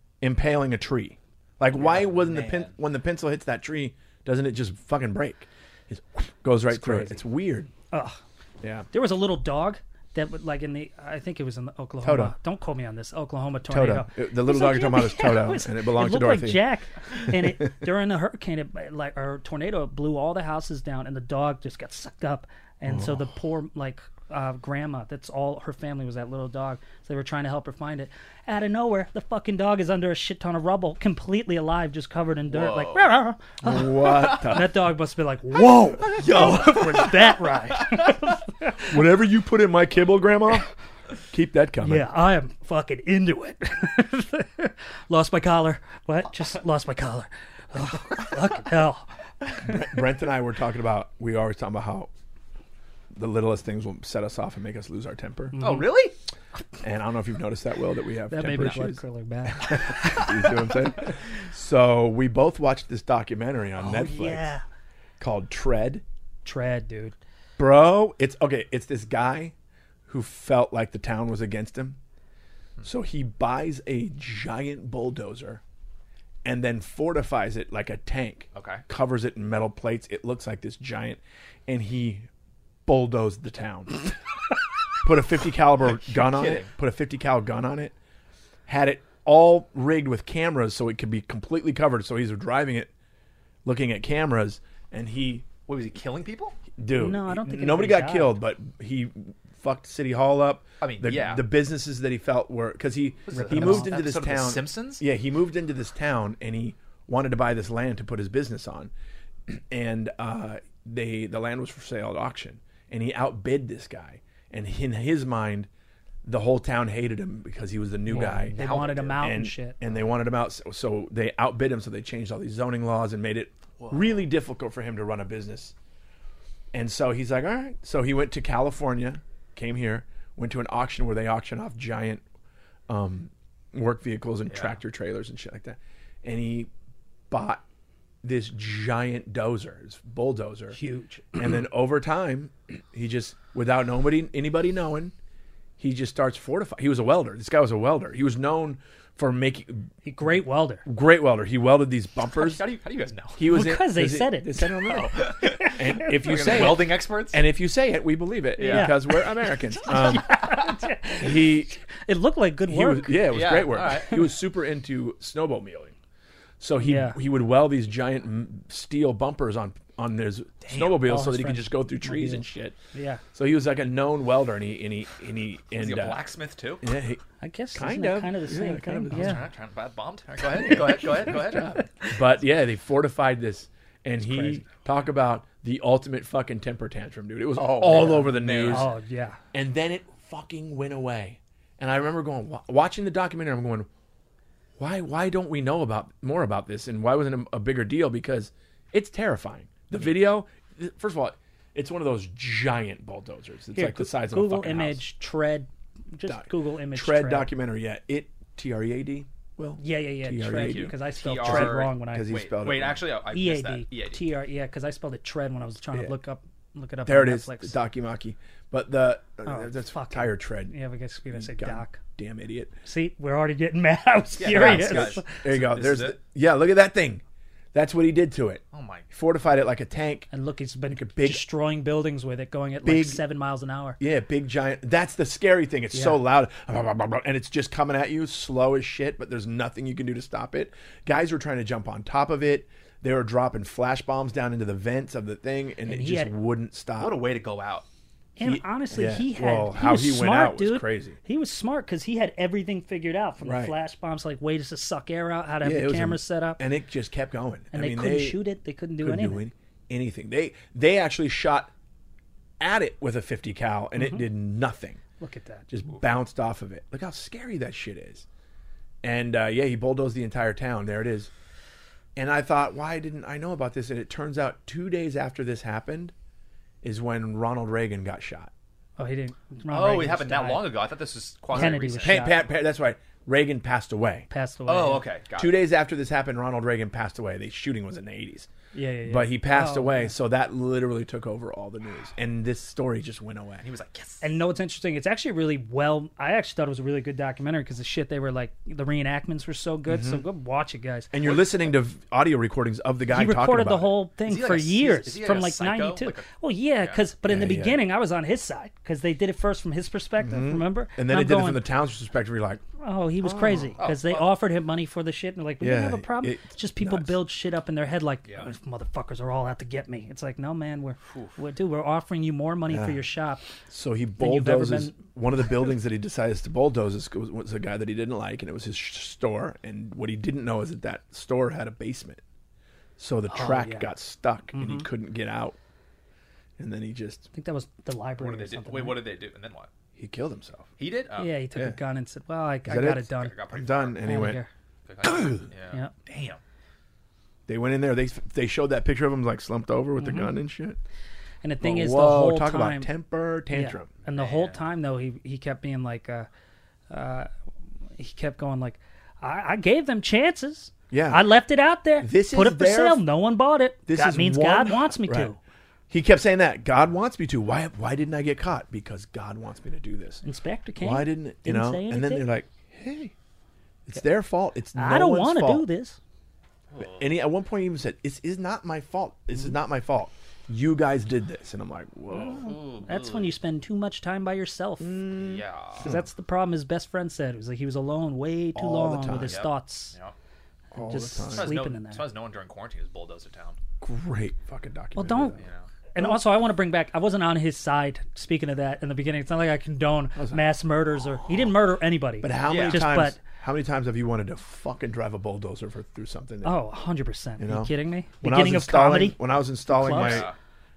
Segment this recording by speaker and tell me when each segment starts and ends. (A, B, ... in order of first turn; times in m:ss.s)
0:00.2-0:07.7 A
0:01.8-0:02.7 B
0:06.7-0:07.2 B
0:07.9-0:08.2 C
0:08.6-0:08.9 A
0:08.9-0:39.0 C
0:12.0-0:12.3 A
0:13.7-0:16.7 A
0:17.2-0:17.6 A
0:22.9-0:23.3 A
0:32.5-0:33.1 B
0:33.6-0:34.8 A
0:34.2-0:34.5 B
0:36.0-0:38.2 B
0:36.2-0:36.7 A
0:38.8-0:40.7 A
0:41.3-0:42.1 A
0:41.8-0:50.0 C
0:49.6-0:52.1 A
0:53.1-0:55.6 A
0:55.5-0:55.9 C
0:55.6-0:56.1 B
0:56.8-1:04.5 A
0:58.3-1:00.7 C
1:03.8-1:04.6 C
1:05.2-1:06.0 A
1:06.4-1:07.2 C
1:07.6-1:09.6 A
1:10.1-1:12.0 A
1:12.8-1:15.6 A
1:16.4-1:22.3 A
1:18.6-1:18.8 B
1:22.9-1:24.1 A
1:25.0-1:28.0 A
1:25.9-1:26.7 B
1:28.7-1:32.9 A
1:33.6-1:35.5 A
1:35.7-1:36.6 B
1:36.8-1:48.9 A
1:37.0-1:38.4 C
1:40.8-1:41.5 B
1:43.3-1:45.0 B
1:43.3-1:44.0 C
1:49.5-1:55.7 A
1:56.2-2:05.8 A
1:58.1-1:59.8 C
1:58.1-1:59.2 B
2:03.8-2:04.0 B
2:06.7-2:12.2 A
2:12.9-2:16.7 A
2:14.5-2:14.8 B
2:17.3-2:17.6 A
2:18.2-2:20.8 A
2:20.7-2:21.6 C
2:21.4-2:25.1 A
2:25.8-2:29.9 A
2:30.0-2:30.8 C
2:30.9-2:32.6 A
2:32.3-2:33.4 B
2:33.4-2:41.8 A
2:33.4-2:36.6 C
2:35.1-2:37.4 B
2:38.6-2:39.0 B
2:38.6-2:43.3 C
2:42.7-2:46.0 A
2:43.3-2:44.3 B
2:46.6-2:52.8 A
2:46.8-2:47.2 C
2:50.7-2:51.0 B
2:51.0-2:53.2 C
2:53.3-2:56.2 A
2:55.7-2:56.9 B
2:56.8-2:57.2 A
2:57.4-2:59.4 C
2:57.7-2:59.4 A
2:59.1-3:01.8 B
3:00.5-3:08.9 A
3:01.8-3:02.1 C
3:04.2-3:04.6 C
3:07.6-3:08.9 B
3:08.7-3:09.4 C
3:09.5-3:13.9 A
3:14.8-3:25.0 A
3:23.7-3:27.5 C
3:26.3-3:33.0 A
3:29.8-3:32.4 C
3:30.5-3:34.2 B
3:33.3-3:37.7 C
3:37.1-3:40.7 A
3:39.5-3:42.0 C
3:41.3-3:42.7 A
3:42.8-3:45.4 C
3:44.4-3:46.2 B
3:44.4-3:47.2 A
3:47.7-3:50.3 A
3:48.7-3:49.1 B
3:50.3-3:54.0 C
3:50.9-3:51.4 A
3:52.8-3:53.2 A
3:54.0-4:07.2 A
3:55.9-3:56.2 C
4:05.8-4:06.3 C
4:07.0-4:07.9 B
4:08.4-4:16.6 C
4:08.4-4:11.2 A
4:13.4-4:13.8 A
4:15.6-4:18.4 A
4:17.7-4:19.5 C
4:19.0-4:21.7 A
4:22.6-4:25.0 A
4:24.0-4:24.2 C
4:25.2-4:25.7 C
4:25.7-4:28.3 A
4:29.0-4:31.3 A
4:32.2-4:36.1 A
4:36.8-4:38.5 A
4:39.0-4:40.7 C
4:39.7-4:42.3 B
4:41.5-4:42.4 C
4:41.6-4:44.3 A
4:44.3-4:45.0 C
4:44.7-4:45.6 B
4:45.4-4:48.5 A
4:48.7-4:50.1 C
4:49.1-4:53.6 A
4:53.6-4:54.3 B
4:54.2-5:01.1 C
4:59.9-5:00.2 A
5:01.1-5:04.0 A
5:03.1-5:11.6 C
5:04.2-5:06.3 B
5:07.3-5:07.8 A
5:10.2-5:12.6 A
5:12.8-5:23.4 C
5:13.2-5:13.7 A
5:13.8-5:14.2 B
5:15.6-5:17.2 A
5:21.1-5:21.4 B
5:22.7-5:23.0 A
5:23.7-5:32.2 A
5:24.2-5:25.0 C
5:33.0-5:35.6 A
5:33.3-5:33.9 C
5:34.5-5:34.9 C
5:36.6-5:37.3 A
5:37.3-5:39.0 C
5:38.2-5:39.7 B
5:40.0-5:40.7 A
5:40.8-5:41.4 B
5:41.2-5:43.4 C
5:42.7-5:44.4 A
5:43.2-5:44.0 B
5:44.0-5:44.5 C
5:44.9-5:46.4 B
5:45.0-5:45.5 A
5:47.5-5:50.8 A
5:50.0-5:50.3 C
5:51.4-5:52.9 C
5:51.6-5:53.9 A
5:53.5-5:56.3 C
5:54.2-5:54.6 B
5:56.9-5:57.3 C
5:58.0-6:05.4 C
6:00.9-6:01.3 A
6:02.0-6:03.0 A
6:03.9-6:05.3 A
6:05.9-6:10.2 A
6:10.2-6:12.3 C
6:10.8-6:13.1 A
6:13.9-6:15.7 A
6:14.8-6:16.0 C
6:16.7-6:17.0 B
6:16.8-6:22.5 A
6:22.2-6:23.3 B
6:22.8-6:25.1 C
6:24.8-6:26.0 A
6:25.1-6:25.9 B
6:25.8-6:30.0 C
6:28.6-6:29.4 A
6:29.1-6:30.1 B
6:30.7-6:31.5 A
6:30.8-6:32.0 C
6:31.3-6:33.6 B
6:33.8-6:35.4 A
6:35.0-6:35.4 C
6:35.4-6:35.7 B
6:36.0-6:43.2 C
6:40.2-6:40.4 A
6:42.2-6:46.6 A
6:42.4-6:42.9 B
6:46.4-6:50.3 C
6:47.4-6:50.3 A
6:49.8-6:50.4 B